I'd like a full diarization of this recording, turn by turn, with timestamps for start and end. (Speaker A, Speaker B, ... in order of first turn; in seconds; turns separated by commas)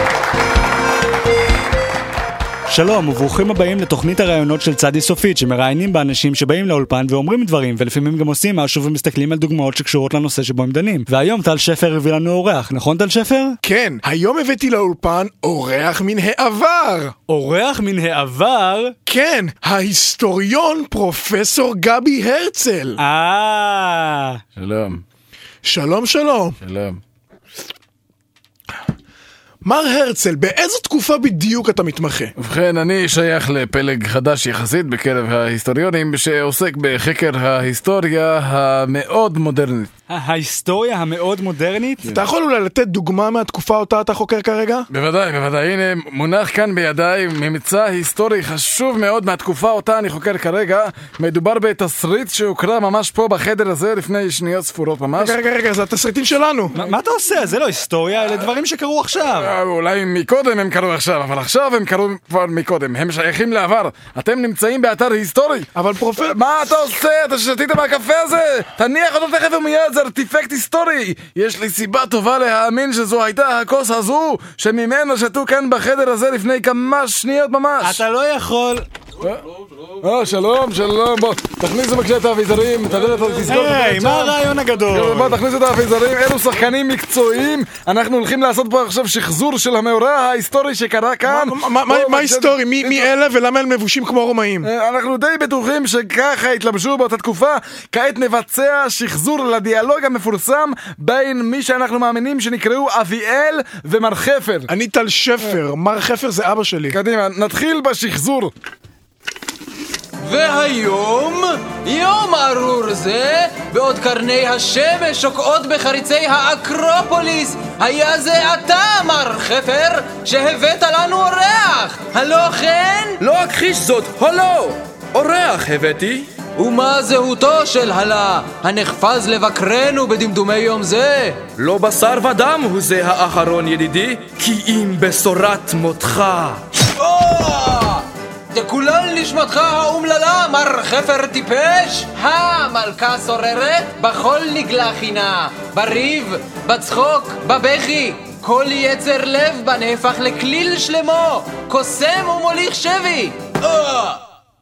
Speaker A: 2.7-13.6, Speaker B: 13.6-17.1, Speaker A: 17.3-18.9, Speaker B: 19.1-23.0, Speaker A: 23.0-24.4, Speaker C: 24.6-25.0, Speaker B: 25.6-26.6, Speaker C: 26.6-27.0, Speaker B: 29.6-32.3, Speaker C: 32.4-39.9, Speaker A: 40.1-42.1, Speaker B: 42.0-44.9, Speaker C: 44.9-55.4, Speaker B: 55.2-56.8, Speaker A: 56.7-59.5, Speaker C: 59.3-78.0, Speaker B: 65.8-66.4, Speaker A: 77.8-78.8, Speaker C: 80.0-84.3, Speaker A: 83.5-85.4, Speaker C: 84.9-93.1, Speaker B: 91.2-94.7, Speaker C: 94.6-104.7, Speaker B: 104.7-107.0, Speaker C: 106.9-108.5, Speaker D: 110.2-123.2, Speaker E: 123.2-126.3, Speaker D: 126.5-131.5, Speaker E: 131.6-136.7, Speaker D: 137.0-154.2